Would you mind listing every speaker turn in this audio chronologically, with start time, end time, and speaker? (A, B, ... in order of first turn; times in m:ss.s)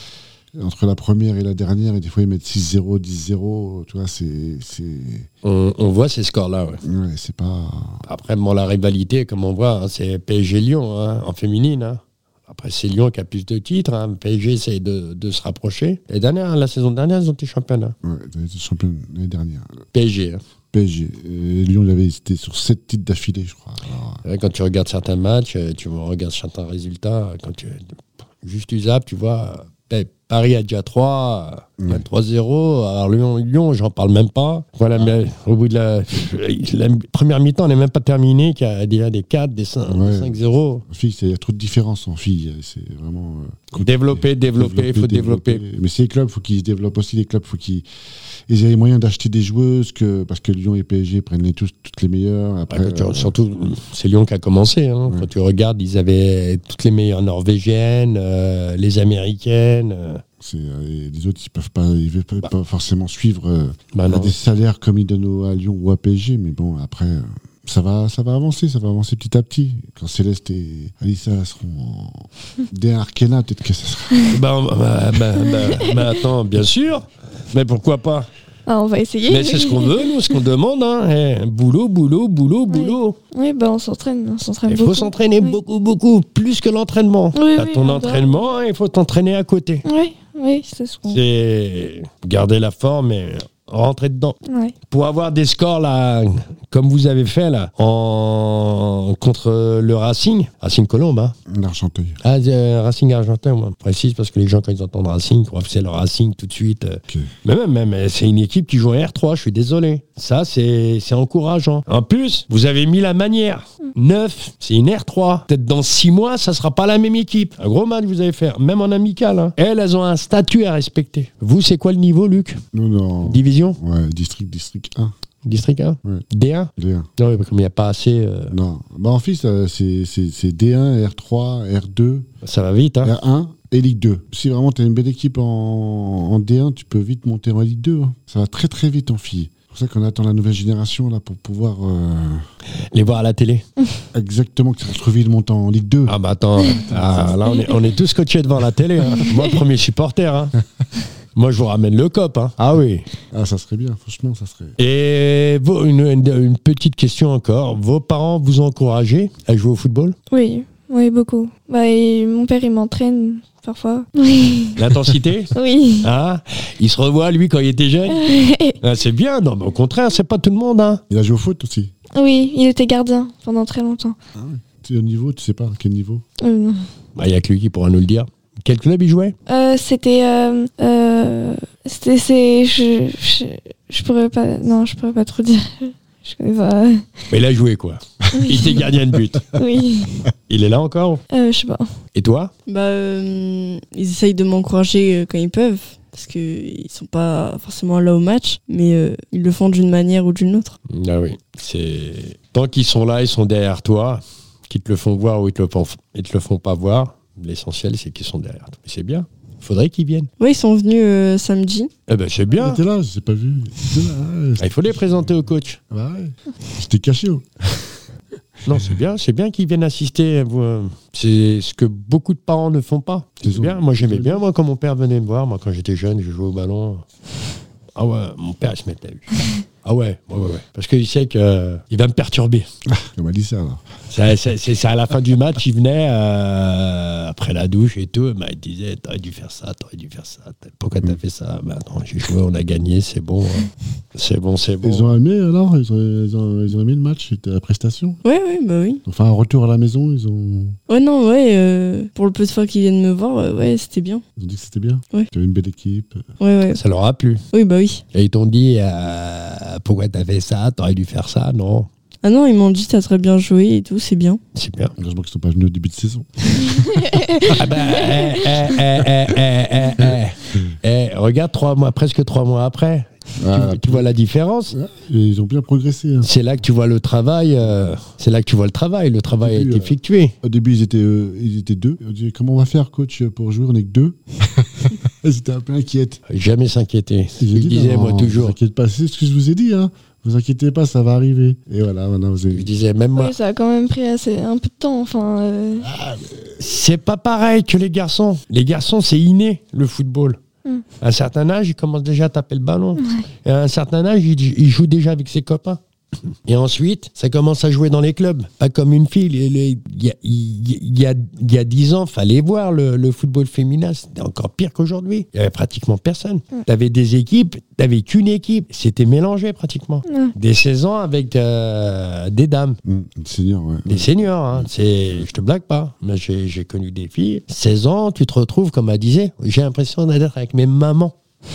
0:00.5-0:05.3 A
0:05.4-0:06.8 B
0:06.8-0:08.0 A
0:08.0-0:17.9 B
0:18.0-0:19.8 A
0:19.9-0:20.4 B
0:20.7-0:24.2 A
0:24.2-0:40.8 B
0:31.8-0:32.0 A
0:39.9-0:47.9 A
0:43.8-0:45.6 B
0:48.5-0:53.3 A
0:52.7-1:00.2 B
1:00.4-1:14.4 A
1:03.9-1:04.3 B
1:14.3-1:18.3 B
1:18.7-1:20.2 C
1:19.3-1:23.2 B
1:22.7-1:25.6 C
1:24.7-1:29.8 B
1:27.3-1:28.4 C
1:29.9-1:31.2 C
1:31.1-1:34.4 B
1:34.5-1:34.7 C
1:34.9-1:41.4 B
1:41.5-1:42.2 A
1:42.2-2:02.6 B
2:02.7-2:05.1 A
2:03.2-2:03.8 B
2:05.4-2:08.5 B
2:06.8-2:07.1 A
2:08.5-2:12.3 A
2:12.4-2:13.1 B
2:13.0-2:22.4 A
2:22.9-2:23.6 B
2:24.1-2:26.2 A
2:26.1-2:30.5 B
2:26.7-2:27.4 A
2:27.4-2:27.8 C
2:31.4-2:33.0 B
2:33.3-2:34.7 A
2:34.8-2:40.1 B
2:40.3-2:44.8 C
2:44.8-2:48.2 B
2:45.5-2:46.1 C
2:48.1-2:48.8 C
2:48.8-2:51.0 B
2:51.1-2:51.9 A
2:52.1-2:54.2 C
2:54.4-2:56.2 A
2:56.4-2:56.8 C
2:57.2-2:59.4 B
2:59.5-3:07.1 C
3:07.3-3:09.5 B
3:08.3-3:08.8 C
3:09.5-3:10.3 C
3:10.5-3:11.2 B
3:11.3-3:11.9 C
3:12.1-3:12.5 B
3:12.7-3:20.8 D
3:20.9-3:30.3 B
3:30.4-3:31.9 D
3:32.1-3:32.8 B
3:32.5-3:38.0 A
3:34.6-3:35.8 B
3:38.6-3:47.0 B
3:43.4-3:44.4 A
3:48.0-3:52.7 B
3:52.9-3:53.8 A
3:54.1-4:05.1 B
4:04.8-4:08.2 A
4:08.2-4:09.0 D
4:09.0-4:10.8 A
4:10.9-4:14.2 D
4:14.4-4:16.2 A
4:16.4-4:16.8 D
4:16.7-4:17.4 B
4:17.5-4:18.0 D
4:18.1-4:21.9 B
4:22.2-4:24.4 D
4:24.5-4:24.9 B
4:25.0-4:27.0 A
4:27.0-4:27.5 C
4:27.5-4:34.7 B
4:33.4-4:34.1 A
4:34.7-4:36.3 A
4:36.2-4:40.3 B
4:39.4-4:46.2 A
4:46.3-4:48.6 B
4:47.4-4:52.7 A
4:52.5-4:53.3 B
4:53.2-4:55.9 C
4:55.8-4:56.6 A
4:56.6-5:00.4 B
5:01.0-5:05.8 B
5:03.0-5:03.2 C
5:06.5-5:22.8 B
5:20.1-5:20.3 C
5:22.8-5:25.2 A
5:23.9-5:31.1 B